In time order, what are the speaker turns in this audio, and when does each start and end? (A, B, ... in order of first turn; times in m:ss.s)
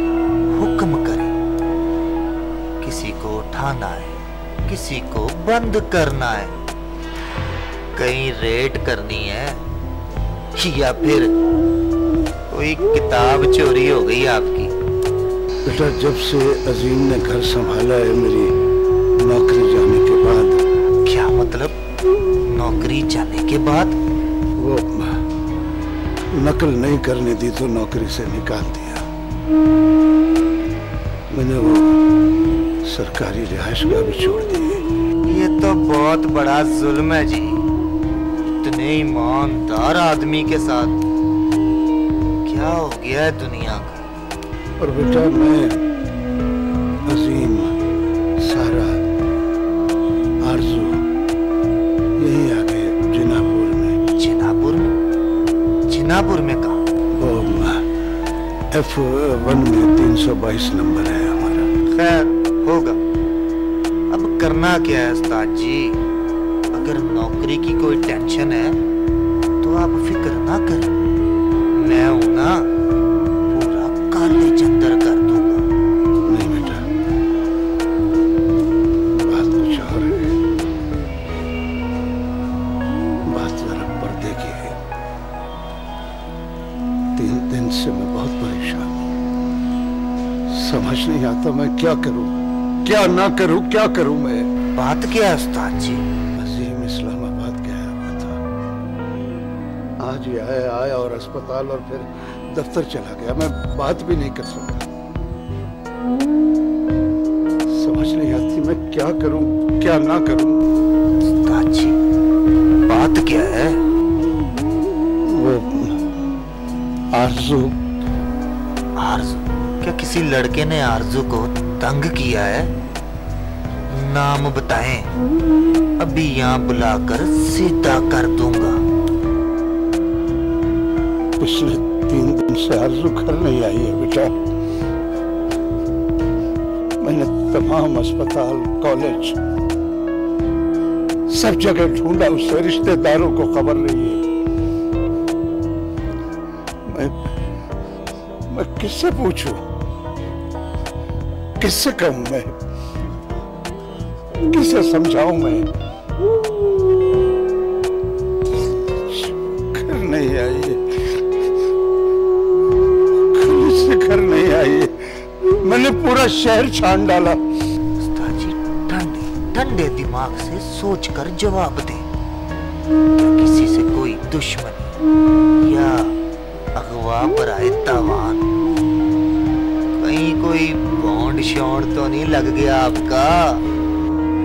0:00.5-0:01.3 A
0:02.8-0:06.6 A
0:08.0-0:09.6 A
0:10.6-0:11.3 A
0:12.5-0:14.7 A
0:15.6-0:18.5 B
0:19.2-0:20.6 B
0:21.0-0:21.8 A
0:22.5-0:24.0 A
0:24.6-0:25.2 B
0:26.3-0:29.1 B
0:31.3-0:32.0 B
0:32.8-0:34.8 B
0:35.3-0:37.6 A
0:38.6-0:41.0 A
0:42.4-0:44.0 A
0:44.8-0:45.8 B
0:47.0-0:47.7 B
0:48.4-0:49.0 B
0:50.4-0:51.0 B
0:52.2-0:54.0 B
0:54.2-0:54.9 A
0:55.9-0:56.8 A
0:57.1-0:57.9 B
0:58.7-1:01.7 B
1:01.9-1:03.0 A
1:04.1-1:06.0 A
1:06.7-1:08.8 A
1:09.6-1:10.9 A
1:11.8-1:12.7 A
1:13.5-1:15.7 A
1:16.3-1:16.9 B
1:19.2-1:20.2 B
1:23.3-1:24.8 B
1:27.2-1:29.0 B
1:30.5-1:34.5 B
1:34.8-1:36.1 A
1:36.4-1:38.4 B
1:40.0-1:44.9 B
1:47.7-1:50.6 B
1:51.2-1:52.0 A
1:52.9-1:53.8 A
1:55.3-1:56.0 B
1:57.1-1:57.8 B
1:59.0-2:02.7 A
2:03.9-2:05.1 A
2:06.0-2:08.8 A
2:11.4-2:14.4 B
2:17.0-2:19.4 B
2:21.3-2:24.2 B
2:26.9-2:27.2 B
2:28.5-2:29.6 B
2:31.6-2:32.5 B
2:34.4-2:35.7 B
2:38.9-2:40.8 B
2:43.3-2:47.4 B
2:48.0-2:52.1 A
2:53.2-2:54.9 A
2:55.6-2:56.2 A
2:56.8-2:58.5 A
2:59.9-3:03.6 A